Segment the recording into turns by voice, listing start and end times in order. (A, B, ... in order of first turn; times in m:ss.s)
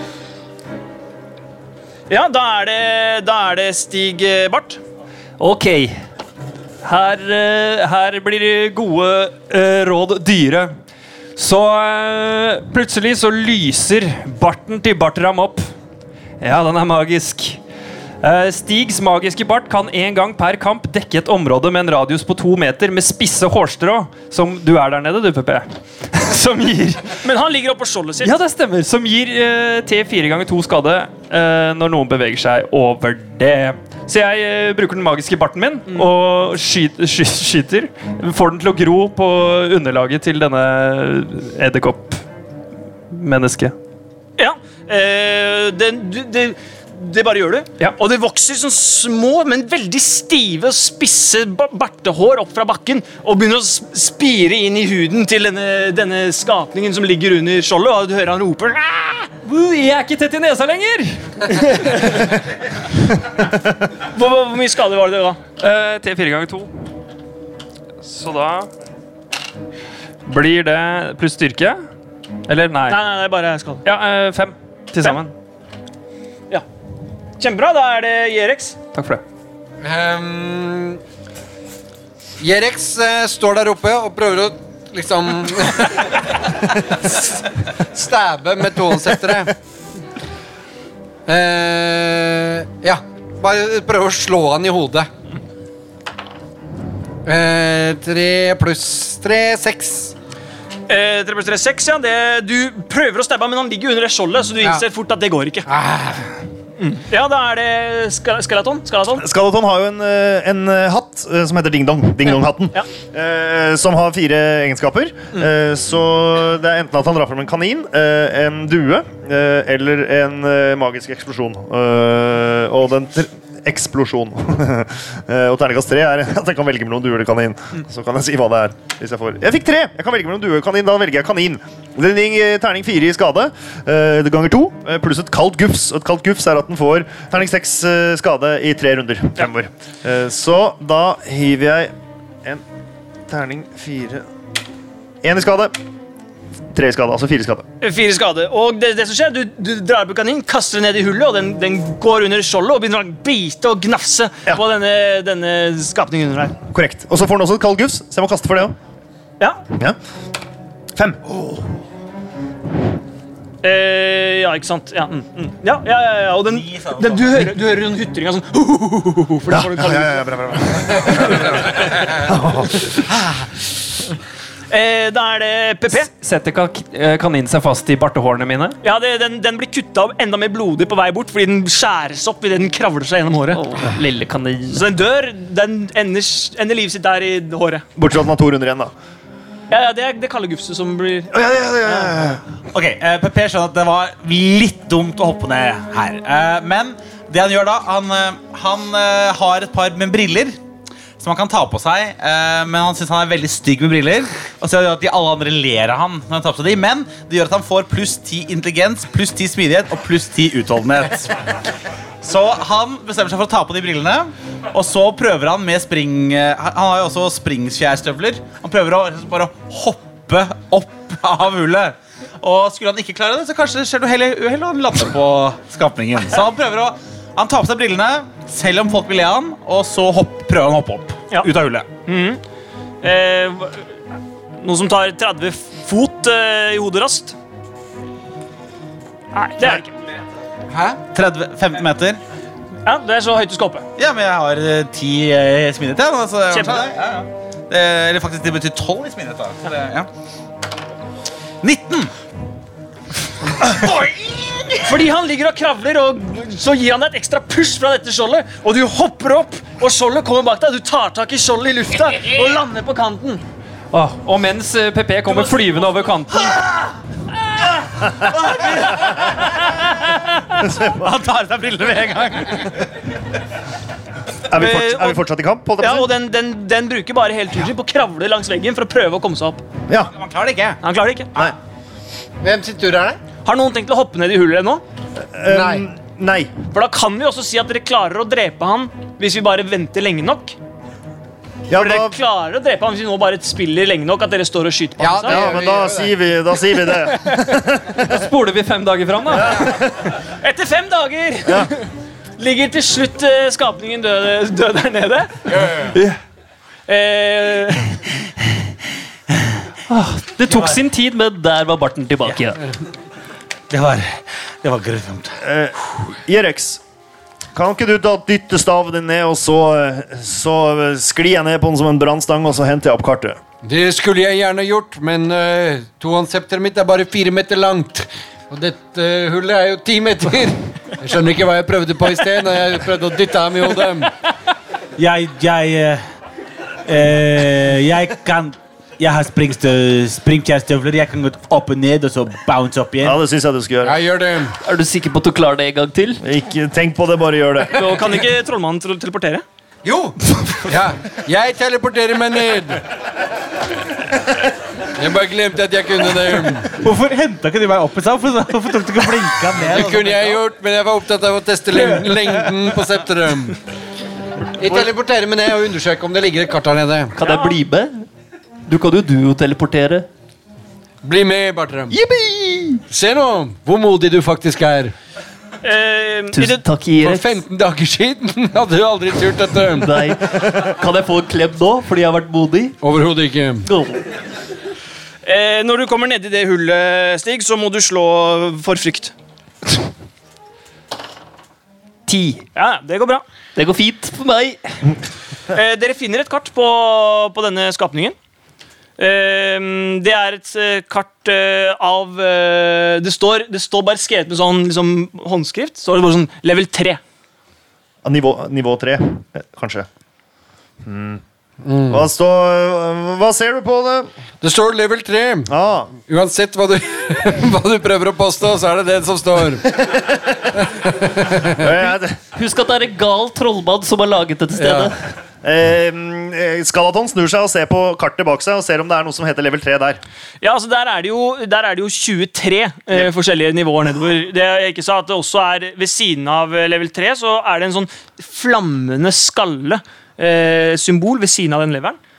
0:02.1-0:04.8 A
0:05.4-0:05.9 B
0:06.8-0:10.7 C
0:11.4-0:15.7 C
0:16.4-0:17.6 C
0:18.2-0:27.2 C
0:27.2-0:28.4 A
0:28.2-0:42.2 C
0:43.1-0:43.7 C
0:44.4-0:59.3 A
0:59.4-1:01.3 C
1:01.5-1:02.3 A
1:04.1-1:05.4 A
1:05.6-1:06.7 C
1:08.0-1:08.7 C
1:10.2-1:11.8 C
1:12.5-1:13.0 C
1:12.9-1:13.8 A
1:13.8-1:15.3 C
1:17.4-1:18.8 A
1:18.9-1:19.2 C
1:19.8-1:21.0 D
1:22.4-1:26.3 D
1:27.9-1:29.5 D
1:31.2-1:35.1 D
1:37.2-1:40.1 D
1:40.9-1:45.6 A
1:45.7-1:46.3 D
1:46.8-1:49.2 A
1:49.1-2:21.9 E
2:23.3-2:24.2 E
2:25.2-2:25.7 E
2:26.7-2:27.6 E
2:27.8-2:36.6 A
2:36.7-2:38.7 E
2:41.0-2:41.6 E
2:43.6-2:50.3 A
2:46.5-2:47.5 F
2:49.5-2:53.0 E
2:54.7-2:56.1 A
2:56.1-2:58.8 C
2:58.8-3:03.6 A
3:03.5-3:04.8 B
3:04.7-3:07.8 A
3:08.0-3:08.9 E
3:09.7-3:11.3 A
3:11.3-3:12.4 E
3:11.8-3:12.1 A
3:12.7-3:20.6 F
3:21.2-3:31.5 F
3:32.2-3:51.9 F
3:52.0-3:52.4 A
3:53.0-3:53.9 A
3:54.6-3:57.3 A
3:59.3-3:59.9 A
4:00.8-4:02.2 F
4:02.8-4:03.8 A
4:04.0-4:10.1 F
4:06.5-4:06.8 A
4:11.6-4:12.1 F
4:13.6-4:14.8 F
4:14.8-4:23.4 A
4:23.9-4:26.6 C
4:28.3-4:29.8 F
4:30.6-4:31.1 E
4:30.9-4:32.8 F
4:34.5-4:36.1 E
4:34.5-4:35.2 A
4:35.8-4:39.6 A
4:40.1-4:40.8 F
4:40.8-4:41.4 A
4:42.4-4:43.2 D
4:43.4-4:44.8 A
4:45.3-4:46.5 E
4:45.5-4:45.8 D
4:46.7-4:50.6 A
4:51.7-4:52.2 E
4:51.7-4:55.6 A
4:55.0-4:56.2 D
4:55.2-4:58.2 E
4:57.1-4:57.4 A
4:58.0-4:59.6 C
4:59.5-4:59.8 E
5:00.3-5:01.9 A
5:02.4-5:05.8 A
5:05.5-5:05.9 D
5:06.9-5:08.0 A
5:09.9-5:11.0 C
5:10.5-5:12.6 B
5:13.7-5:15.4 F
5:15.4-5:16.8 E
5:17.5-5:23.4 E
5:23.6-5:34.1 D
5:35.0-5:36.0 F
5:36.8-5:43.2 F
5:43.0-5:44.0 E
5:43.8-5:44.6 D
5:44.6-5:46.2 B
5:46.2-5:48.1 E
5:47.7-5:49.4 A
5:49.8-5:52.8 D
5:54.9-5:56.8 D
5:56.7-6:00.4 F
5:59.6-6:03.6 D
6:01.7-6:02.3 F
6:04.6-6:07.1 D
6:07.2-6:08.0 B
6:07.2-6:07.6 A
6:08.7-6:10.1 B
6:11.0-6:11.9 D
6:11.9-6:12.8 B
6:12.9-6:14.9 D
6:15.6-6:16.6 A
6:16.3-6:17.3 B
6:17.0-6:20.1 D
6:19.8-6:22.8 B
6:22.8-6:23.7 D
6:23.6-6:24.0 B
6:25.2-6:29.1 A
6:32.1-6:32.4 B
6:32.5-6:33.2 A
6:33.5-6:34.8 B
6:35.5-6:38.2 A
6:39.0-6:47.0 A
6:48.0-6:49.9 E
6:50.8-6:51.2 E
6:51.6-6:52.1 D
6:51.9-6:54.1 E
6:54.4-6:55.5 D
6:55.5-6:55.9 E
6:56.0-6:59.8 D
7:00.5-7:01.7 D
7:01.5-7:02.2 E
7:02.3-7:05.0 B
7:04.6-7:04.9 D
7:05.4-7:10.0 E
7:10.4-7:22.0 A